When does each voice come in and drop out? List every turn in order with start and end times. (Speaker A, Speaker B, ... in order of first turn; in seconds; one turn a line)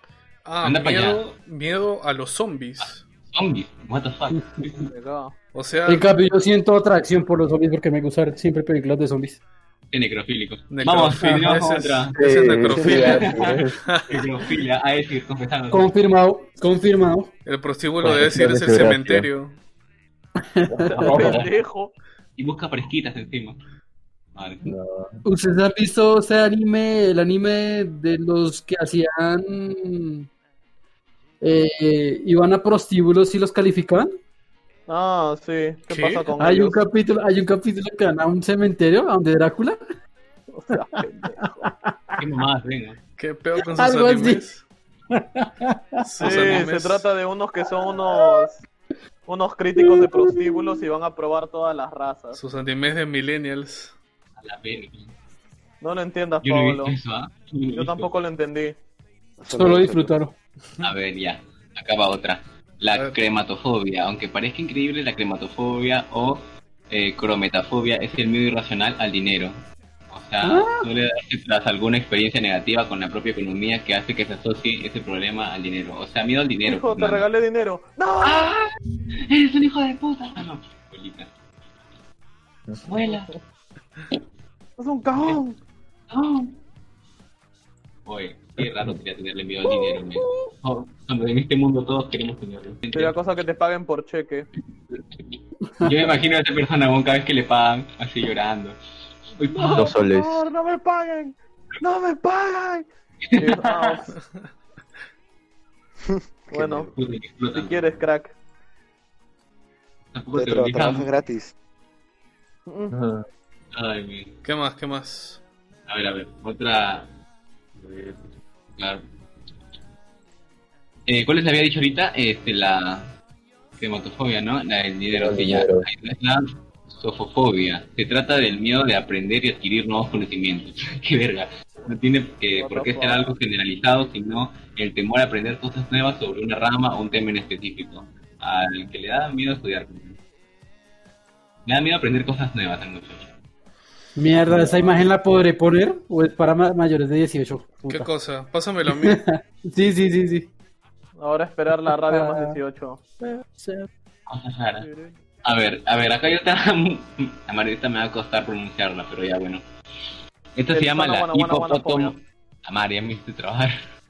Speaker A: 0.4-3.0
Speaker B: 0.6-1.3
Speaker B: 2.8-4.9
Speaker C: 4.8-5.3
Speaker A: 5.5-6.1
Speaker D: 5.8-9.4
Speaker B: 9.9-12.2
Speaker A: 10.7-14.2
Speaker E: 12.2-13.8
Speaker B: 12.8-15.9
Speaker D: 15.7-17.3
Speaker A: 17.4-19.6
Speaker E: 18.0-19.3
Speaker D: 20.6-21.3
Speaker E: 20.7-21.5
Speaker C: 20.9-21.9
Speaker B: 21.0-21.5
Speaker B: 22.4-23.6
Speaker B: 24.3-24.7
Speaker E: 24.6-25.2
Speaker D: 25.2-30.3
Speaker D: 31.4-34.1
Speaker C: 34.9-36.8
Speaker A: 35.9-36.3
Speaker D: 36.4-39.8
Speaker C: 40.5-41.7
Speaker D: 40.8-42.1
Speaker B: 42.2-43.0
Speaker A: 43.2-44.6
Speaker D: 43.7-44.4
Speaker D: 45.1-46.6
Speaker A: 46.0-47.1
Speaker C: 46.2-48.6
Speaker C: 49.2-52.4
Speaker D: 49.8-50.8
Speaker A: 52.3-53.9
Speaker B: 54.4-55.1
Speaker C: 55.8-57.0
Speaker B: 56.4-58.1
Speaker C: 57.7-58.8
Speaker F: 59.4-60.1
Speaker D: 59.5-60.4
Speaker B: 60.8-69.5
Speaker B: 70.1-77.2
Speaker D: 70.4-70.8
Speaker C: 76.6-78.6
Speaker B: 78.2-78.7
Speaker B: 79.2-81.3
Speaker B: 82.8-83.3
Speaker C: 83.1-83.3
Speaker C: 84.8-85.6
Speaker B: 86.1-86.5
Speaker B: 88.0-93.2
Speaker C: 92.9-94.5
Speaker B: 94.9-98.8
Speaker B: 99.3-99.9
Speaker C: 99.5-102.8
Speaker E: 99.7-100.4
Speaker B: 103.2-104.0
Speaker C: 103.4-104.1
Speaker A: 104.2-104.5
Speaker F: 106.0-106.9
Speaker C: 106.5-106.9
Speaker B: 106.9-108.0
Speaker C: 107.5-108.3
Speaker B: 110.1-111.1
Speaker F: 110.3-111.5
Speaker C: 112.7-112.9
Speaker E: 112.9-113.2
Speaker B: 113.7-114.4
Speaker A: 114.4-115.4
Speaker B: 115.9-117.1
Speaker B: 117.8-118.2
Speaker B: 118.8-119.0
Speaker B: 121.1-123.1
Speaker B: 123.8-140.2
Speaker E: 125.1-125.8
Speaker C: 132.6-133.3
Speaker B: 141.7-143.3
Speaker D: 144.2-148.1
Speaker A: 147.8-149.2
Speaker D: 148.9-150.5
Speaker C: 151.2-153.0
Speaker D: 151.8-152.6
Speaker D: 153.2-153.9
Speaker B: 154.3-154.9
Speaker C: 154.8-155.2
Speaker B: 155.4-159.6
Speaker B: 160.6-163.7
Speaker C: 160.7-162.2